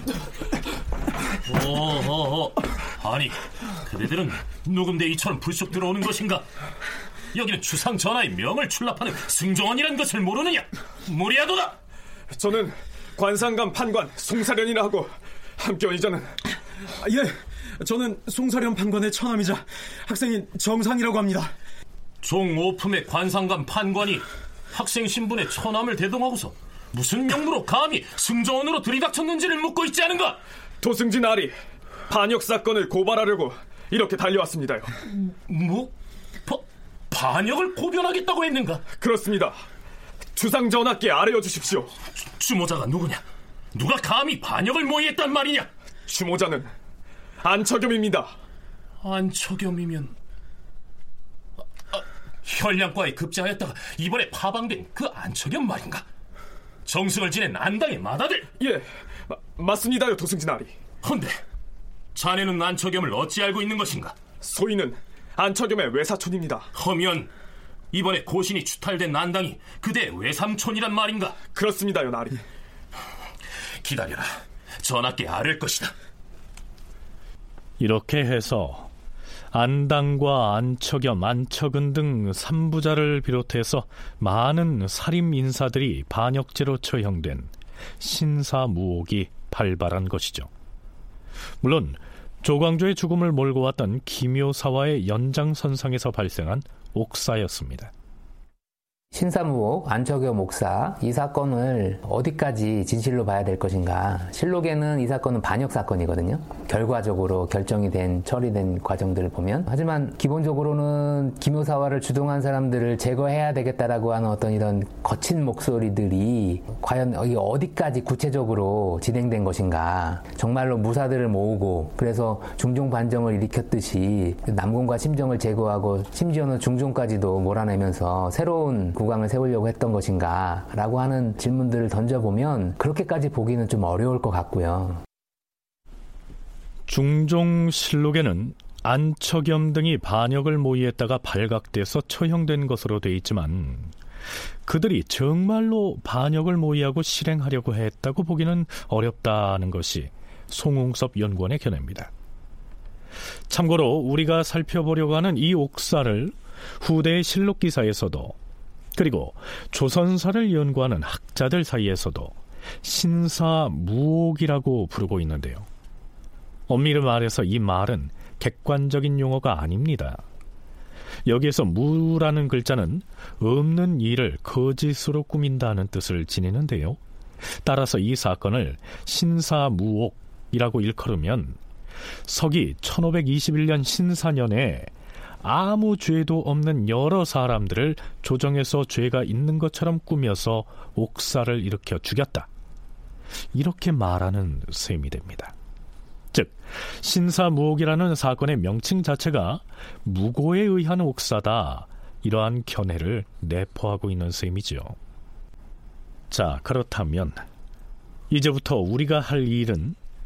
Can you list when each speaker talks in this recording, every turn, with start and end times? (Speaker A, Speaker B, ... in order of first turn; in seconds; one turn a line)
Speaker A: 1.5-6.5
Speaker A: 7.3-11.8
Speaker B: 12.3-16.4
Speaker C: 17.0-17.3
Speaker C: 17.8-21.5
Speaker A: 22.2-30.4
Speaker B: 30.8-31.5
Speaker B: 32.1-34.9
Speaker A: 35.3-35.9
Speaker A: 36.5-38.8
Speaker B: 39.0-39.6
Speaker B: 40.4-41.9
Speaker A: 42.3-45.7
Speaker B: 46.1-46.7
Speaker B: 47.4-48.3
Speaker A: 49.0-50.1
Speaker A: 51.9-56.0
Speaker A: 56.9-58.5
Speaker B: 58.6-60.7
Speaker A: 61.0-61.4
Speaker A: 62.1-64.2
Speaker B: 64.4-66.7
Speaker A: 66.7-67.3
Speaker A: 67.9-71.4
Speaker B: 71.5-72.4
Speaker A: 73.8-75.9
Speaker D: 77.8-78.9
Speaker D: 79.5-90.5
Speaker D: 91.6-97.9
Speaker E: 99.1-135.0
Speaker D: 136.9-143.9
Speaker D: 144.7-152.1
Speaker D: 153.5-158.3
Speaker D: 158.9-165.7
Speaker D: 166.7-170.2
Speaker D: 171.3-177.0
Speaker D: 177.6-181.6
Speaker D: 182.3-192.5
Speaker D: 193.5-195.5
Speaker D: 196.3-205.0
Speaker D: 206.3-207.4
Speaker D: 208.3-210.0